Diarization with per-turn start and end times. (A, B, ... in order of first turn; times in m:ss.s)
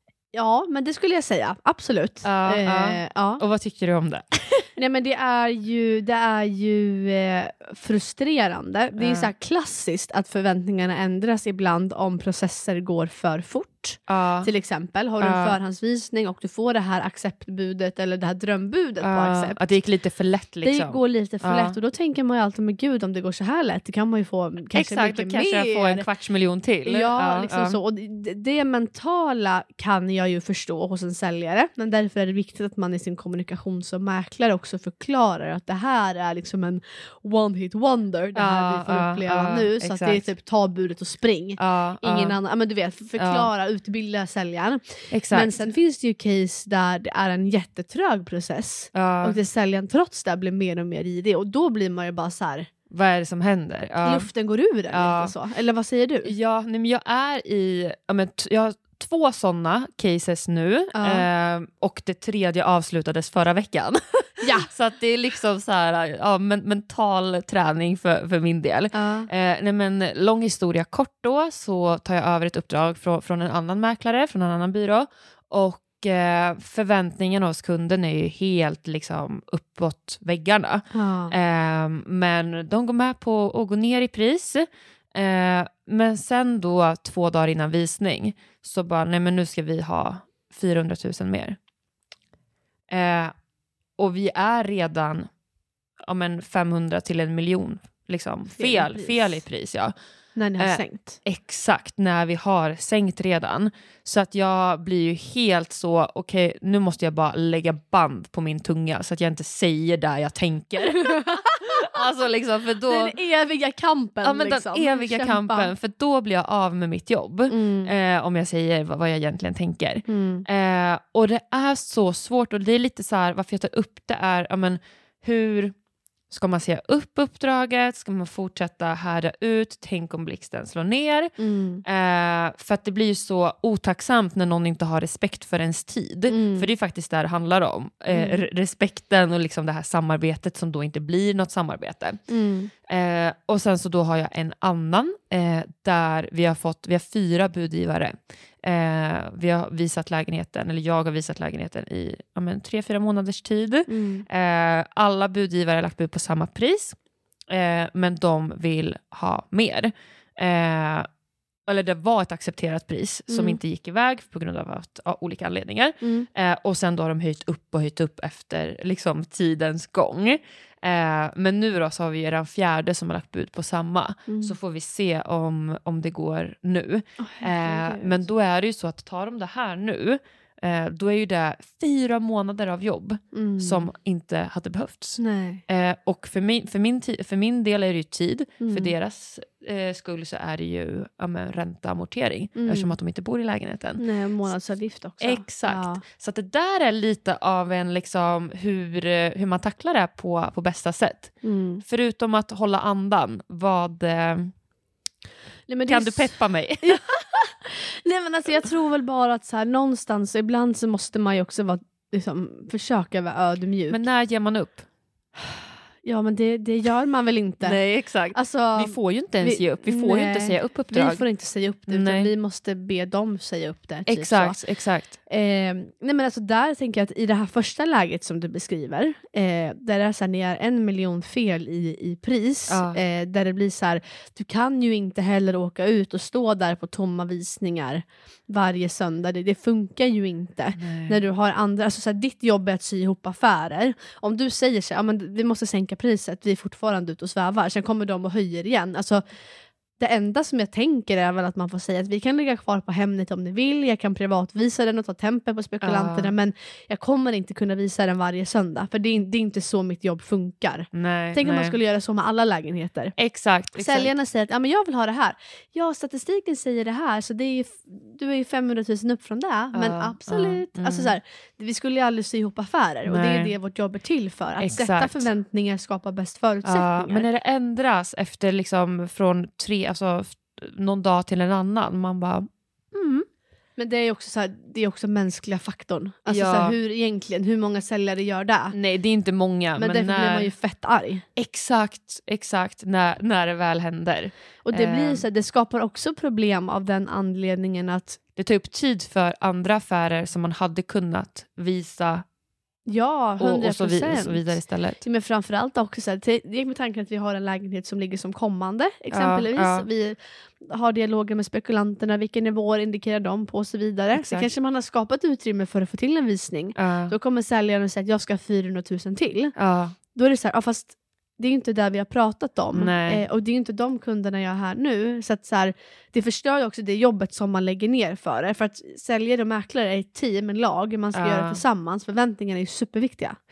0:00.3-0:03.4 A
0:02.2-0:04.7 B
0:04.8-0:19.6 A
0:09.0-0:09.3 B
0:14.1-0:14.5 B
0:15.2-0:15.6 B
0:19.0-0:21.8 B
0:20.6-0:26.0 A
0:24.7-0:27.8 B
0:26.8-0:52.7 A
0:38.3-0:40.3 B
0:41.6-0:42.4 B
0:43.2-0:43.5 B
0:45.1-0:45.5 B
0:48.9-0:49.4 B
0:52.9-0:54.3 B
0:54.0-0:56.3 A
0:54.9-0:55.3 B
0:56.2-1:31.6 B
1:00.9-1:01.3 A
1:04.4-1:04.7 A
1:08.9-1:09.3 A
1:20.9-1:21.3 A
1:32.9-1:33.3 B
1:34.0-1:35.3 B
1:36.0-1:39.9 B
1:38.5-1:39.4 A
1:40.4-1:41.2 A
1:40.6-1:53.1 B
1:51.0-1:51.9 A
1:52.9-1:55.7 A
1:54.2-2:05.7 B
1:57.5-1:57.9 A
2:00.0-2:00.4 A
2:06.3-2:11.3 B
2:11.4-2:11.8 A
2:11.8-2:22.2 B
2:16.3-2:16.7 A
2:18.1-2:18.4 A
2:22.3-2:22.7 A
2:22.9-2:37.0 B
2:33.9-2:34.2 A
2:37.5-2:41.1 B
2:41.7-3:14.0 B
2:43.3-2:43.6 A
2:46.0-2:46.3 A
2:54.3-2:54.5 A
2:57.2-2:58.2 A
3:03.3-3:03.9 A
3:05.2-3:05.6 A
3:08.6-3:08.9 A
3:12.6-3:12.9 A
3:14.0-3:16.0 A
3:15.2-3:21.3 B
3:21.4-3:21.8 A
3:21.8-3:24.5 B
3:25.7-3:34.0 A
3:25.9-3:27.0 B
3:33.9-3:34.8 B
3:35.5-3:37.8 A
3:37.6-3:41.2 B
3:38.3-3:44.6 A
3:41.9-3:42.3 B
3:44.0-3:45.2 B
3:45.3-4:09.2 A
3:52.7-3:53.0 B
4:00.8-4:01.2 B
4:10.0-4:23.1 A
4:15.8-4:16.3 B
4:20.9-4:21.8 B
4:23.2-4:24.1 B
4:23.7-4:37.2 A
4:29.7-4:31.1 B
4:33.0-4:33.5 B
4:34.6-4:35.3 B
4:36.6-4:43.2 B
4:43.8-4:48.7 A
4:46.3-4:46.7 B
4:48.7-4:50.5 B
4:49.8-4:51.2 A
4:51.4-4:55.2 B
4:54.6-4:58.2 A
4:58.4-5:02.2 B
5:02.8-5:19.5 A
5:03.4-5:05.0 B
5:09.1-5:09.9 B
5:14.1-5:14.5 B
5:16.8-5:17.1 B
5:19.6-5:20.0 B
5:20.1-5:33.4 A
5:22.7-5:23.2 B
5:31.1-5:31.6 B